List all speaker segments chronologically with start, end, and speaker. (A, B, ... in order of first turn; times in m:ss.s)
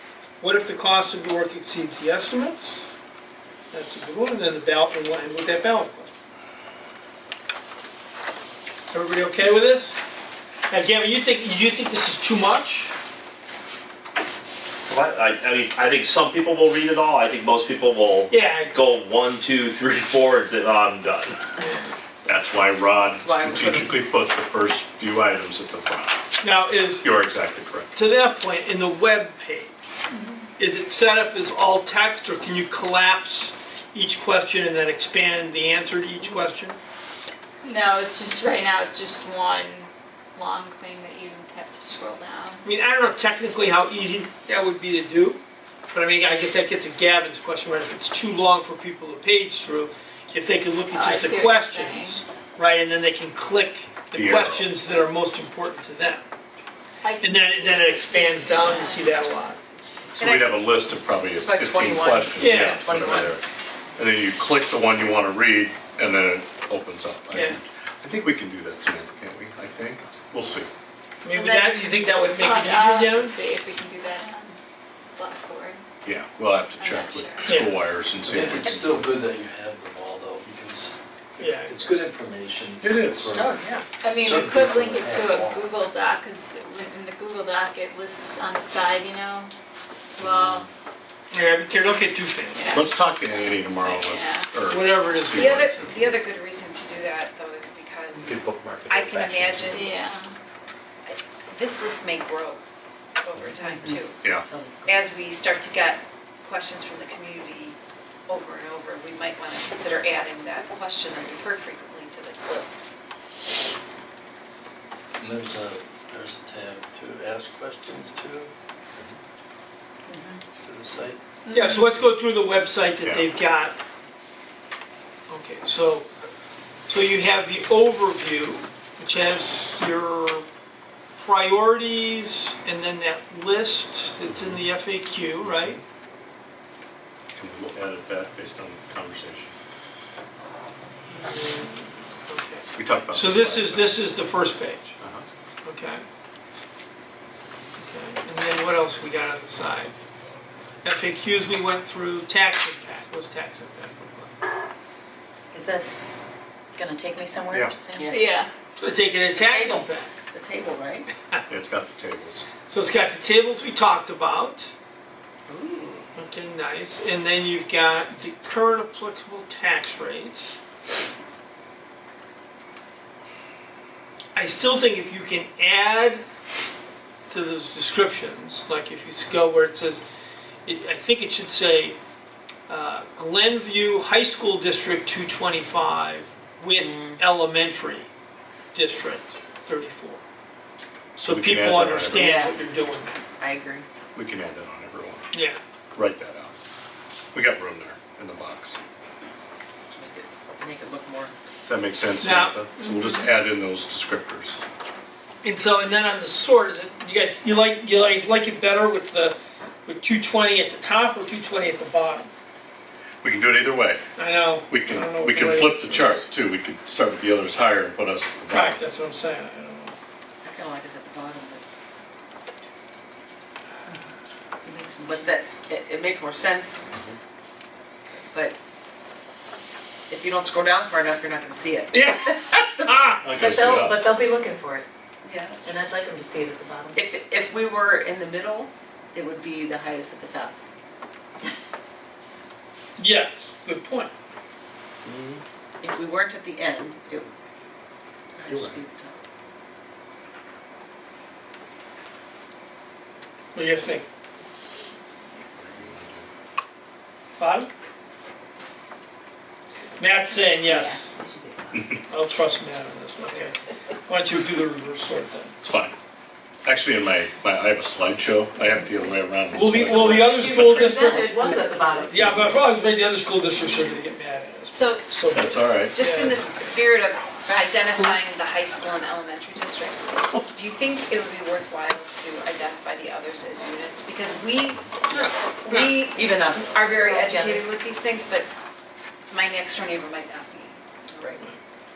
0:00.4-0:02.9 A
0:03.7-0:06.1 A
0:08.9-0:10.0 A
0:10.7-0:12.9 A
0:14.9-0:21.4 B
0:18.3-0:18.7 A
0:21.6-0:22.0 A
0:22.2-0:26.2 C
0:23.2-0:23.7 D
0:26.4-0:27.1 A
0:27.0-0:27.9 C
0:28.0-0:29.9 A
0:30.1-0:30.5 E
0:30.6-0:36.8 A
0:37.6-0:42.6 E
0:42.6-0:56.2 A
0:50.9-0:52.2 E
0:54.1-0:54.7 C
0:57.0-0:59.1 E
0:57.2-0:59.6 A
0:58.0-1:00.7 F
1:00.1-1:03.4 C
1:01.4-1:02.4 D
1:02.4-1:03.0 A
1:04.0-1:10.7 C
1:07.3-1:07.6 A
1:11.2-1:13.3 A
1:11.3-1:14.6 E
1:15.2-1:15.8 E
1:16.0-1:19.1 C
1:16.8-1:17.5 E
1:17.4-1:17.8 A
1:18.3-1:25.8 G
1:18.3-1:18.6 A
1:21.4-1:21.8 A
1:22.8-1:23.3 C
1:23.6-1:23.8 D
1:24.0-1:29.5 E
1:30.2-1:30.7 E
1:31.3-1:32.9 A
1:32.6-1:32.9 E
1:32.7-1:36.1 C
1:33.8-1:34.5 E
1:34.7-1:36.2 A
1:35.3-1:39.9 F
1:38.3-1:39.0 C
1:39.1-1:39.5 H
1:39.7-1:40.3 E
1:41.0-1:42.6 F
1:43.2-1:44.2 F
1:43.6-1:45.0 H
1:44.2-1:44.5 C
1:44.8-1:52.8 F
1:55.2-1:58.5 G
2:00.1-2:00.4 H
2:00.5-2:01.2 G
2:01.5-2:01.9 E
2:01.5-2:03.8 A
2:03.0-2:03.3 C
2:05.3-2:06.1 A
2:06.9-2:10.5 A
2:11.2-2:15.8 A
2:17.4-2:19.6 C
2:21.1-2:25.0 A
2:22.8-2:24.0 C
2:25.0-2:25.3 C
2:25.6-2:26.0 A
2:27.8-2:30.0 A
2:30.8-2:34.3 A
2:35.5-2:36.2 H
2:36.8-2:38.2 H
2:37.5-2:37.8 C
2:38.1-2:38.5 E
2:38.8-2:40.1 A
2:39.4-2:41.1 D
2:41.5-2:42.5 C
2:42.7-2:44.7 A
2:45.5-2:46.1 D
2:46.2-2:50.6 A
2:54.4-2:56.2 A
2:57.3-3:00.0 A
3:00.7-3:02.0 A
3:02.7-3:08.1 A
3:06.8-3:07.2 D
3:08.7-3:10.2 A
3:11.2-3:12.4 C
3:11.2-3:13.2 A
3:12.1-3:13.9 D
3:14.2-3:15.3 C
3:15.3-3:15.6 A
3:16.0-3:16.5 C
3:17.3-3:18.8 C
3:19.9-3:21.3 D
3:21.6-3:24.6 C
3:22.2-3:22.6 A
3:25.4-3:32.3 A
3:33.2-3:34.0 C
3:34.2-3:36.2 A
3:34.7-3:38.8 C
3:38.5-3:40.0 A
3:40.4-3:41.6 D
3:44.6-3:45.6 H
3:45.0-3:46.8 D
3:46.9-3:47.2 C
3:50.1-3:53.0 D
3:51.9-3:53.3 A
3:53.2-3:54.2 C
3:53.4-3:54.9 H
3:55.3-3:55.7 D
3:55.6-3:57.0 H
3:57.0-4:00.5 D
4:03.0-4:04.1 A
4:05.0-4:05.4 C
4:05.8-4:07.3 D
4:08.4-4:09.2 D
4:08.5-4:08.8 C
4:13.6-4:14.0 A
4:15.4-4:16.3 C
4:17.4-4:17.7 A
4:20.0-4:21.0 A
4:20.6-4:22.0 H
4:21.7-4:22.0 C
4:22.1-4:25.5 A
4:25.6-4:26.0 C
4:26.6-4:30.8 C
4:29.5-4:36.8 A
4:29.7-4:32.2 H
4:32.1-4:32.6 C
4:34.7-4:35.1 F
4:35.3-4:36.0 C
4:35.9-4:46.2 F
4:45.1-4:45.9 A
4:46.1-4:46.8 D
4:46.7-4:48.5 F
4:46.8-4:47.7 H
4:49.3-4:51.3 F
4:51.2-4:51.4 D